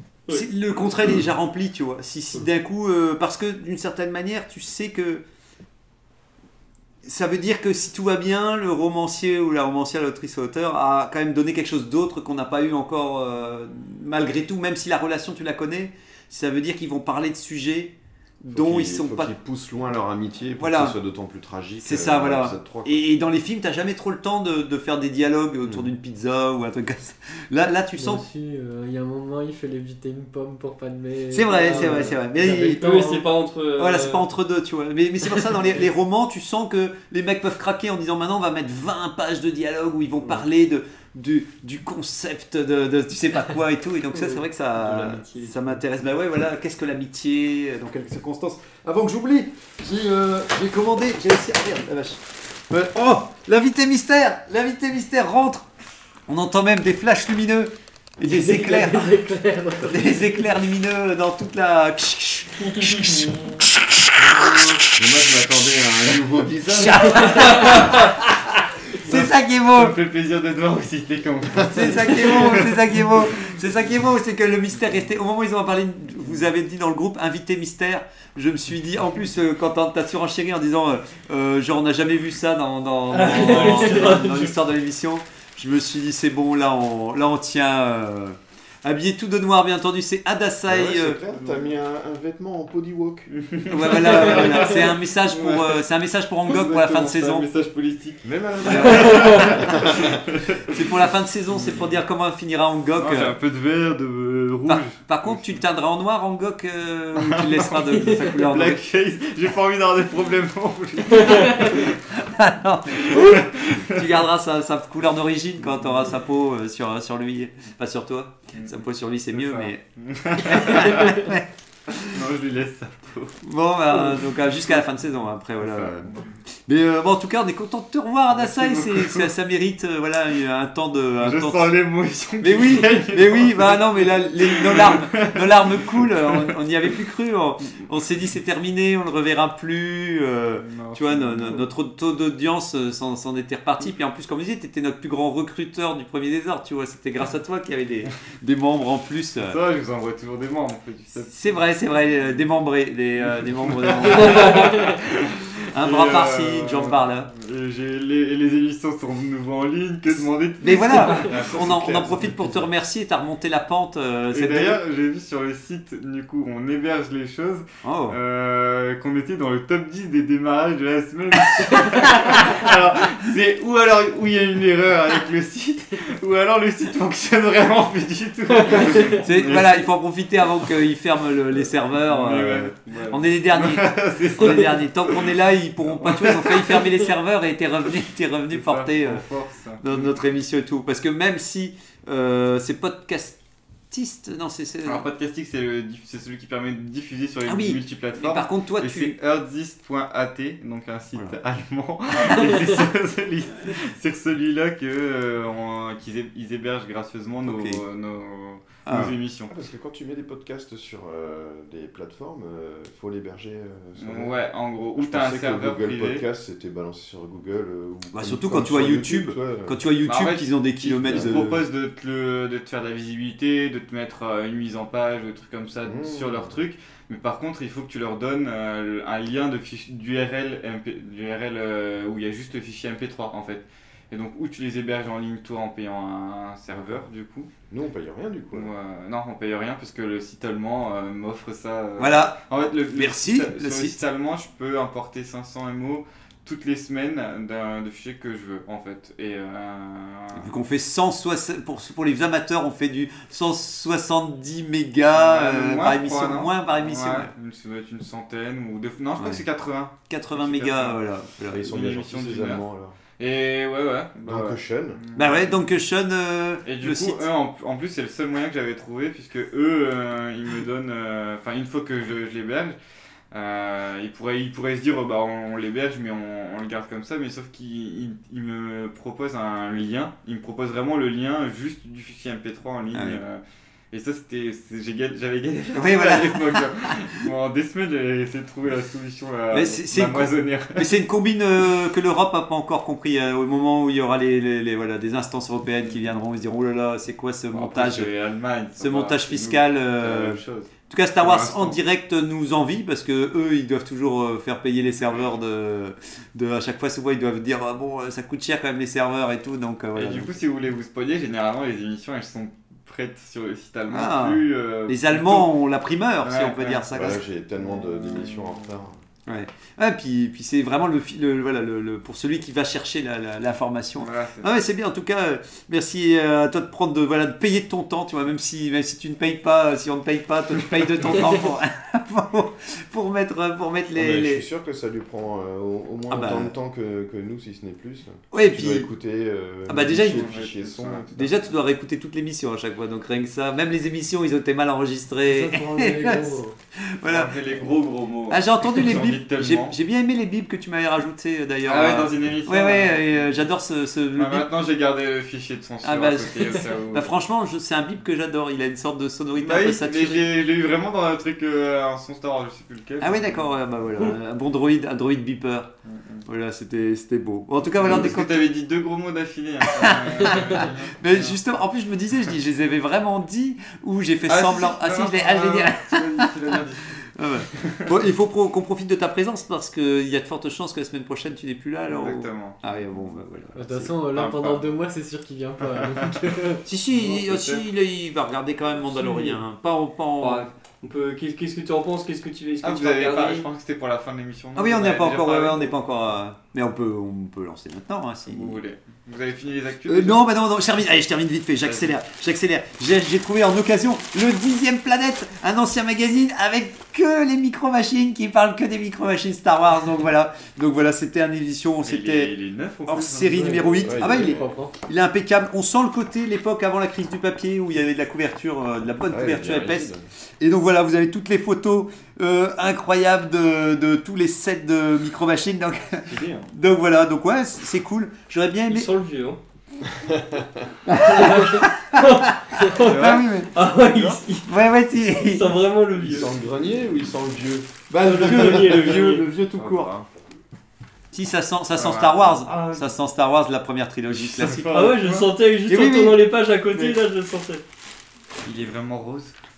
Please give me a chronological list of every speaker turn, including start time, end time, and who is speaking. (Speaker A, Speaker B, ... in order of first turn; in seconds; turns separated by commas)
Speaker A: 0.3-5.2, Speaker A: 7.0-19.3, Speaker B: 18.5-23.1, Speaker A: 20.6-20.9, Speaker A: 21.8-28.2, Speaker B: 25.6-25.9, Speaker C: 28.0-33.2, Speaker A: 31.3-33.2, Speaker D: 31.9-34.3, Speaker A: 33.8-55.7, Speaker B: 44.8-45.5, Speaker A: 56.3-59.2, Speaker C: 58.3-60.2, Speaker A: 59.8-64.7, Speaker B: 64.5-67.4, Speaker A: 66.7-70.0, Speaker E: 69.1-73.2, Speaker A: 71.7-91.2, Speaker D: 83.1-84.5, Speaker B: 90.7-93.3, Speaker E: 91.3-91.7, Speaker E: 93.4-95.8, Speaker A: 93.7-97.5, Speaker E: 96.5-100.8, Speaker B: 98.2-100.1, Speaker A: 98.7-99.7, Speaker A: 100.7-103.4, Speaker E: 101.5-101.9, Speaker E: 103.0-105.6, Speaker A: 104.7-108.8, Speaker E: 107.2-111.9, Speaker A: 111.7-119.8, Speaker E: 113.1-114.1, Speaker E: 118.5-121.3, Speaker A: 120.4-122.0, Speaker E: 122.1-123.3, Speaker A: 123.4-126.1, Speaker E: 125.6-126.3, Speaker A: 126.7-131.8, Speaker E: 128.3-129.3, Speaker E: 131.2-136.6, Speaker A: 132.4-149.6, Speaker E: 140.6-141.7, Speaker E: 149.4-152.4, Speaker A: 151.3-154.9, Speaker E: 153.2-162.6, Speaker A: 155.7-157.3, Speaker A: 160.6-164.8, Speaker B: 161.8-162.2, Speaker E: 164.3-179.9, Speaker A: 167.8-168.2, Speaker A: 179.1-189.2, Speaker E: 181.5-185.3, Speaker E: 185.9-186.9, Speaker E: 188.5-190.2, Speaker A: 189.8-193.4, Speaker A: 193.9-195.1, Speaker E: 194.8-209.5, Speaker A: 197.5-199.2, Speaker A: 207.4-207.8, Speaker A: 208.9-209.2, Speaker B: 209.5-214.4, Speaker E: 214.0-216.2, Speaker B: 215.0-219.8, Speaker A: 218.1-221.6, Speaker E: 220.0-237.5, Speaker B: 221.0-221.6, Speaker B: 225.8-226.6, Speaker B: 236.7-237.0, Speaker B: 237.7-238.7, Speaker E: 238.5-250.5, Speaker A: 242.0-244.0, Speaker A: 250.4-257.3, Speaker E: 255.1-261.0, Speaker A: 260.1-261.7, Speaker B: 261.5-263.0, Speaker E: 261.7-262.6, Speaker E: 263.2-265.6, Speaker B: 264.2-265.0, Speaker A: 265.2-267.3, Speaker E: 266.6-272.8, Speaker E: 273.3-290.9, Speaker A: 282.9-283.2, Speaker A: 285.8-286.7, Speaker A: 289.5-298.1, Speaker E: 297.5-301.8, Speaker A: 298.8-310.4, Speaker E: 309.9-315.5, Speaker A: 313.9-317.2, Speaker E: 316.2-317.1, Speaker B: 316.9-319.0, Speaker E: 317.6-318.7, Speaker A: 319.3-334.4, Speaker E: 324.0-324.5, Speaker B: 333.9-341.4, Speaker A: 336.1-336.5, Speaker A: 338.3-338.9, Speaker A: 339.7-340.3, Speaker E: 340.0-341.1, Speaker A: 341.1-347.5, Speaker C: 345.2-346.6, Speaker E: 347.1-349.8, Speaker A: 348.3-354.5, Speaker E: 351.6-353.4, Speaker E: 354.1-357.1, Speaker A: 355.8-360.4, Speaker E: 359.4-363.5, Speaker A: 363.0-365.7, Speaker E: 365.9-366.2, Speaker A: 366.3-368.6, Speaker E: 367.8-371.4, Speaker A: 369.8-376.3, Speaker E: 374.3-377.0, Speaker A: 377.2-383.9, Speaker E: 377.5-377.9, Speaker E: 381.9-382.6, Speaker C: 383.6-386.6, Speaker E: 384.1-384.7, Speaker A: 386.7-390.5, Speaker E: 386.9-387.7, Speaker D: 389.0-389.4, Speaker D: 390.2-393.5, Speaker E: 392.6-395.7, Speaker A: 394.6-398.6, Speaker E: 398.3-400.2, Speaker A: 399.9-412.4, Speaker E: 401.6-402.0, Speaker E: 411.8-414.2, Speaker A: 412.9-428.9, Speaker C: 413.3-414.7, Speaker B: 413.9-414.4, Speaker B: 419.1-420.0, Speaker E: 426.1-426.5, Speaker D: 428.7-429.4, Speaker B: 430.1-430.5, Speaker A: 430.9-432.2, Speaker D: 431.0-434.5, Speaker A: 432.8-433.6, Speaker E: 432.8-433.3, Speaker E: 433.9-434.2, Speaker A: 434.4-435.5, Speaker D: 435.0-436.3, Speaker B: 436.0-437.9, Speaker A: 437.9-439.9, Speaker D: 438.0-439.2, Speaker E: 439.5-440.1, Speaker A: 441.1-444.9, Speaker E: 441.8-442.9, Speaker E: 444.1-445.3, Speaker D: 444.5-447.6, Speaker A: 445.7-446.2, Speaker E: 448.4-449.4